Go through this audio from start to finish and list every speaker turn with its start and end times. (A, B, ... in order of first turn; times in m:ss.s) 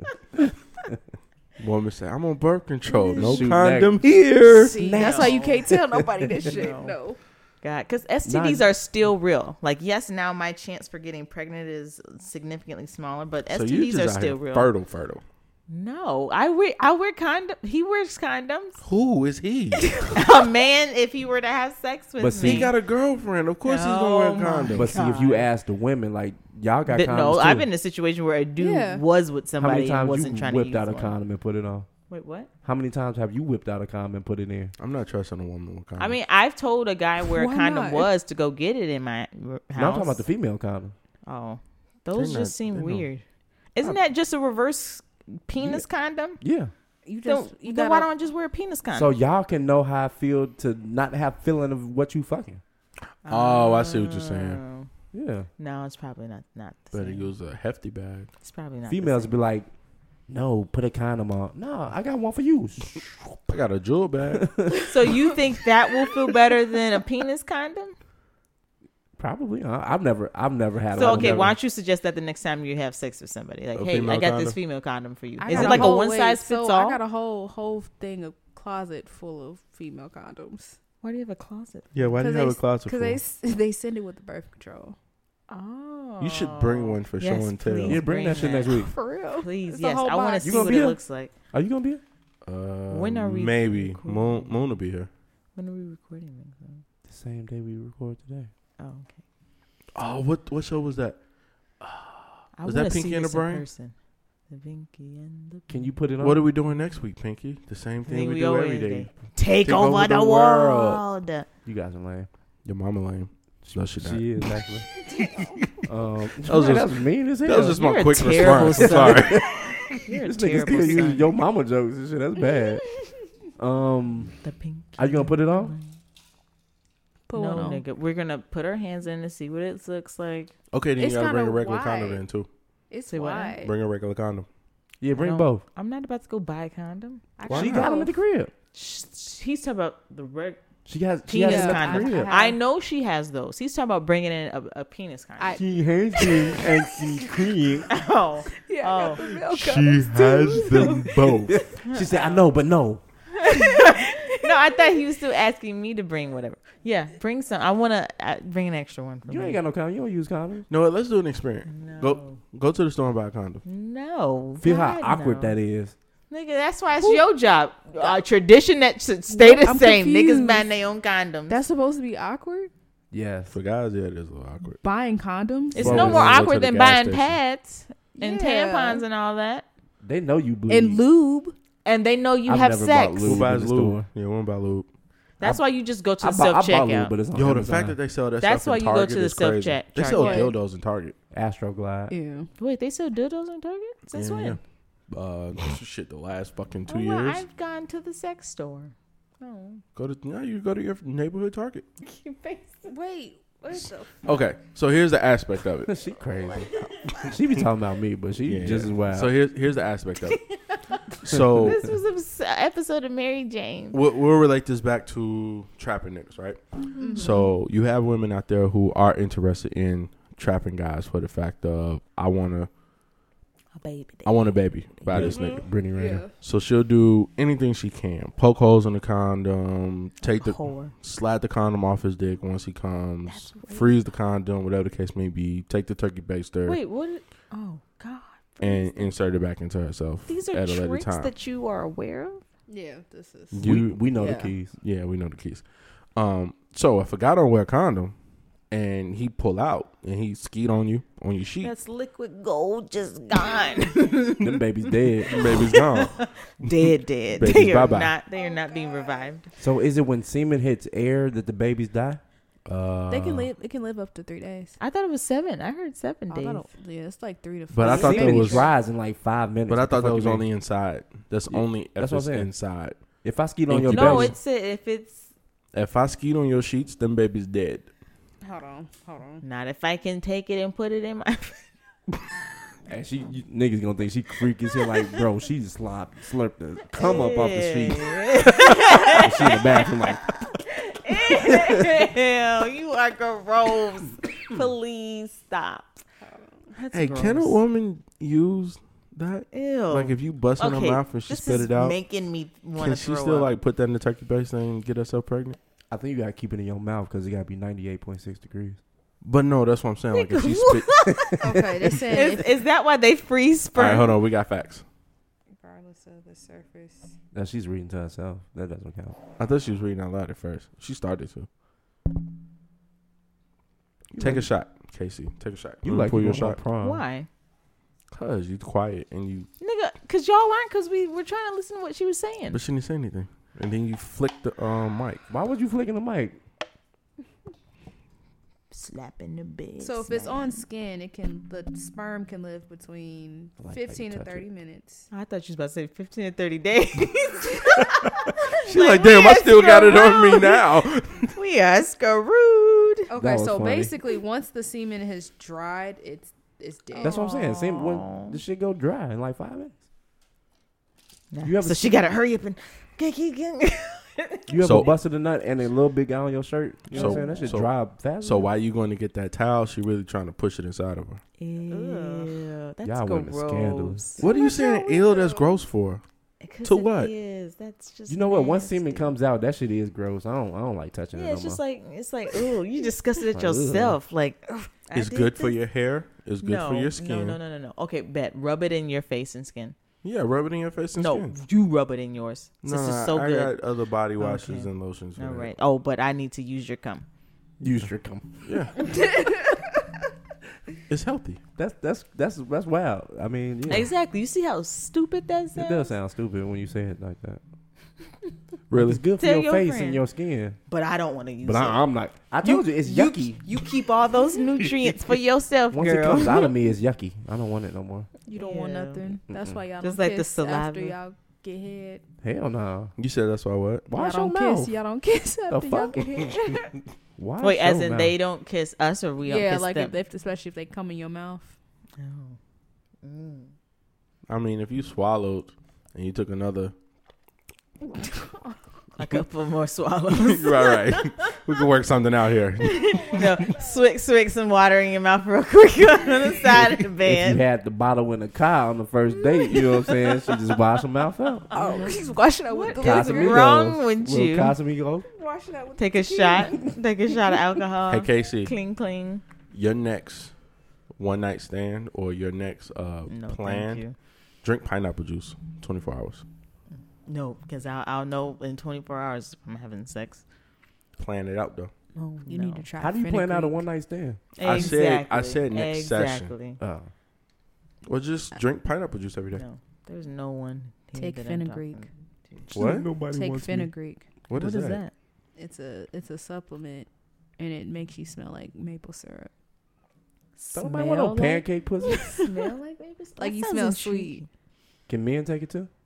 0:01.6-0:04.7 A
0:02.9-0:03.3 B
0:03.1-0:03.4 C
0:03.2-0:04.1 D
0:04.6-0:07.2 C
0:04.6-0:06.5 D
0:04.8-0:05.7 B
0:06.4-0:07.0 B
0:07.6-0:14.7 B
0:08.2-0:08.6 D
0:13.5-0:15.2 A
0:15.7-0:18.8 B
0:18.8-0:20.0 A
0:20.0-0:22.7 B
0:22.2-0:22.7 D
0:22.4-0:24.9 A
0:23.6-0:25.5 B
0:24.7-0:27.7 D
0:26.9-0:31.2 B
0:28.6-0:29.0 C
0:29.6-0:31.9 D
0:32.1-0:32.5 B
0:32.6-0:34.7 D
0:34.8-0:36.2 A
0:36.0-0:40.2 B
0:37.3-0:38.1 C
0:39.8-0:40.9 D
0:41.2-0:46.4 B
0:42.1-0:43.0 A
0:46.4-0:46.7 D
0:47.0-0:48.1 C
0:47.2-0:49.1 B
0:48.9-0:52.6 D
0:53.2-0:54.9 B
0:53.3-0:54.6 A
0:55.1-0:55.5 D
0:55.6-0:57.3 B
0:56.9-0:58.3 A
0:58.4-0:59.3 B
0:58.9-0:59.7 D
1:00.3-1:03.4 D
1:03.5-1:04.5 A
1:04.3-1:04.9 D
1:04.9-1:08.0 B
1:09.2-1:11.5 D
1:10.9-1:17.0 B
1:11.0-1:11.5 A
1:13.7-1:14.6 A
1:15.4-1:20.8 C
1:15.5-1:16.0 A
1:21.0-1:22.0 B
1:21.9-1:23.2 A
1:22.1-1:25.0 C
1:25.5-1:31.3 B
1:26.2-1:28.0 A
1:27.8-1:28.9 D
1:28.3-1:30.9 C
1:30.4-1:32.0 D
1:32.4-1:35.1 A
1:32.9-1:34.6 B
1:35.5-1:36.8 B
1:37.1-1:38.5 D
1:38.8-1:39.2 B
1:39.9-1:41.2 A
1:41.8-1:43.7 A
1:42.5-1:45.9 B
1:45.7-1:46.4 D
1:46.2-1:51.0 A
1:48.0-1:51.5 B
1:51.6-1:52.3 D
1:52.6-1:54.2 A
1:53.6-1:54.8 D
1:55.1-1:55.5 C
1:55.8-1:57.8 D
1:56.4-1:56.9 A
1:57.4-1:59.7 A
1:57.7-2:01.3 B
1:58.3-2:02.8 D
2:03.6-2:04.3 D
2:04.4-2:06.0 B
2:05.0-2:05.7 D
2:07.3-2:07.8 C
2:07.3-2:10.5 B
2:10.7-2:12.5 A
2:11.0-2:12.2 C
2:12.9-2:13.7 C
2:13.1-2:13.6 B
2:13.6-2:14.5 A
2:15.0-2:15.6 D
2:15.1-2:17.3 B
2:17.4-2:18.1 C
2:17.5-2:17.9 A
2:17.5-2:18.5 D
2:18.7-2:20.6 B
2:20.8-2:22.3 D
2:21.2-2:25.6 B
2:21.4-2:22.6 C
2:25.4-2:25.6 C
2:25.5-2:27.9 D
2:26.2-2:26.6 C
2:27.9-2:29.2 B
2:28.6-2:31.3 C
2:29.2-2:31.6 A
2:31.5-2:33.0 D
2:31.7-2:32.4 B
2:33.4-2:39.6 B
2:39.2-2:40.7 D
2:40.7-2:43.6 A
2:41.7-2:42.4 B
2:43.6-2:45.6 B
2:44.6-2:45.9 D
2:46.3-2:51.6 B
2:49.3-2:50.7 C
2:51.5-2:52.7 C
2:53.1-2:53.5 D
2:53.5-2:54.8 A
2:54.8-2:56.0 C
2:55.7-2:59.6 B
2:55.7-2:57.4 A
2:55.8-2:56.4 D
2:58.2-2:59.0 C
3:00.0-3:01.0 D
3:00.7-3:01.5 C
3:01.8-3:03.4 B
3:02.4-3:04.1 D
3:03.2-3:04.9 A
3:05.4-3:07.1 B
3:05.4-3:08.0 D
3:07.3-3:11.2 A
3:08.4-3:10.5 B
3:10.0-3:10.5 C
3:11.3-3:12.1 D
3:12.1-3:12.5 C
3:12.6-3:14.6 B
3:14.1-3:17.4 A
3:16.9-3:19.8 B
3:19.9-3:21.8 A
3:22.0-3:22.9 B
3:22.8-3:24.2 C
3:24.2-3:25.9 A
3:25.9-3:26.7 D
3:27.2-3:29.3 D
3:28.4-3:30.4 A
3:30.3-3:31.0 B
3:31.2-3:31.9 A
3:31.5-3:34.0 B
3:33.9-3:42.7 A
3:37.0-3:37.4 B
3:37.0-3:37.5 C
3:43.8-3:45.6 B
3:44.2-3:45.7 A
3:45.1-3:46.3 D
3:45.2-3:46.3 C
3:46.4-3:56.8 A
3:50.3-3:50.9 B
3:53.3-3:53.9 B
3:56.6-3:59.1 B
3:58.6-4:01.3 A
4:00.3-4:02.4 B
4:02.7-4:04.5 C
4:03.5-4:04.2 A
4:03.6-4:04.7 D
4:04.7-4:08.1 A
4:08.7-4:11.7 A
4:11.6-4:14.6 B
4:14.4-4:15.3 D
4:15.2-4:19.5 B
4:15.2-4:18.2 A
4:18.3-4:19.5 C
4:19.6-4:22.2 D
4:22.6-4:23.5 A
4:23.1-4:24.8 C
4:24.8-4:26.7 B
4:26.3-4:28.7 C
4:27.7-4:28.7 A
4:27.8-4:30.4 D
4:29.7-4:33.0 A
4:31.5-4:32.5 D
4:33.2-4:34.3 D
4:33.7-4:34.3 A
4:33.8-4:35.3 B
4:35.7-4:37.8 A
4:38.4-4:39.4 C
4:39.4-4:41.6 B
4:42.9-4:48.2 D
4:46.9-4:56.0 B
4:49.1-4:50.4 D
4:51.5-4:51.7 D
4:56.2-4:56.6 C
4:56.7-4:57.6 B
4:56.9-5:02.0 A
4:59.5-5:03.5 B
5:02.8-5:05.6 A
5:05.9-5:08.8 D
5:09.2-5:11.0 A
5:10.1-5:14.2 B
5:11.4-5:12.5 C
5:13.7-5:14.8 A
5:15.6-5:17.1 C
5:17.3-5:19.2 D
5:19.4-5:21.5 A
5:24.2-5:26.6 A
5:24.2-5:24.5 D
5:25.8-5:27.0 D
5:26.8-5:27.3 B
5:28.1-5:29.5 A
5:29.6-5:32.6 B
5:32.5-5:35.2 A
5:35.3-5:36.4 D
5:38.7-5:40.6 B
5:39.8-5:45.1 C
5:43.6-5:44.5 D
5:45.1-5:50.8 B
5:48.6-5:51.3 A
5:51.3-5:53.1 B
5:53.1-5:57.5 C
5:53.2-5:53.9 D
5:56.9-5:58.4 B
5:57.0-5:59.7 D
6:01.3-6:04.5 B
6:01.4-6:02.0 D
6:04.5-6:08.5 D
6:04.6-6:04.9 A
6:06.9-6:11.2 A
6:06.9-6:07.5 B
6:11.4-6:14.3 B
6:11.7-6:12.3 C
6:12.8-6:14.2 D
6:14.2-6:16.0 A
6:14.2-6:15.4 C
6:16.4-6:19.1 B
6:16.6-6:17.1 A
6:18.1-6:21.6 D
6:21.1-6:25.6 B
6:23.3-6:24.0 D
6:24.9-6:27.4 A
6:26.4-6:29.8 B
6:30.0-6:31.3 A
6:31.0-6:33.6 B
6:32.6-6:35.5 A
6:34.2-6:37.0 B
6:37.6-6:38.5 D
6:38.4-6:38.8 A
6:39.1-6:39.6 C
6:40.9-6:41.4 A
6:41.6-6:43.9 D
6:43.7-6:45.9 B
6:45.5-6:47.4 D
6:48.7-6:49.0 A
6:48.8-6:50.6 D
6:49.2-6:50.0 B
6:50.7-6:51.8 B
6:51.4-6:53.4 D
6:52.4-6:56.5 B
6:55.7-6:58.1 D
6:58.3-7:02.0 C
6:58.3-6:59.0 B
6:59.3-6:59.6 D
6:59.8-7:01.0 B
7:02.2-7:02.9 D
7:03.0-7:03.9 A
7:03.9-7:04.8 D
7:03.9-7:06.8 C
7:05.5-7:06.3 D
7:07.2-7:08.1 D
7:07.4-7:10.0 B
7:09.2-7:11.5 C
7:12.0-7:12.4 B
7:13.0-7:13.5 B
7:14.3-7:16.7 A
7:19.0-7:21.4 B
7:20.2-7:23.5 A
7:22.6-7:27.4 B
7:27.0-7:31.9 D
7:31.5-7:33.6 C
7:31.6-7:31.9 B
7:32.5-7:34.5 B
7:32.7-7:35.0 D
7:35.0-7:36.8 C
7:35.8-7:39.2 B
7:37.9-7:38.5 A
7:39.5-7:40.4 A
7:40.9-7:43.8 A
7:43.1-7:43.9 B
7:44.4-7:46.2 A
7:47.0-7:50.2 B
7:51.0-7:51.7 A
7:51.9-7:52.6 B
7:52.3-7:53.6 C
7:52.8-7:54.2 D
7:54.4-7:56.6 B
7:54.4-7:56.3 A
7:56.6-7:56.9 D
7:57.8-7:59.4 A
7:59.3-8:02.5 B
8:01.0-8:01.9 C
8:02.5-8:03.7 A
8:02.5-8:02.9 D
8:02.5-8:04.1 C
8:04.3-8:04.8 A
8:04.3-8:04.9 B
8:05.4-8:09.3 C
8:10.4-8:10.8 B
8:10.5-8:12.2 D
8:10.6-8:12.2 C
8:12.0-8:14.3 B
8:13.2-8:14.2 C
8:14.9-8:15.7 D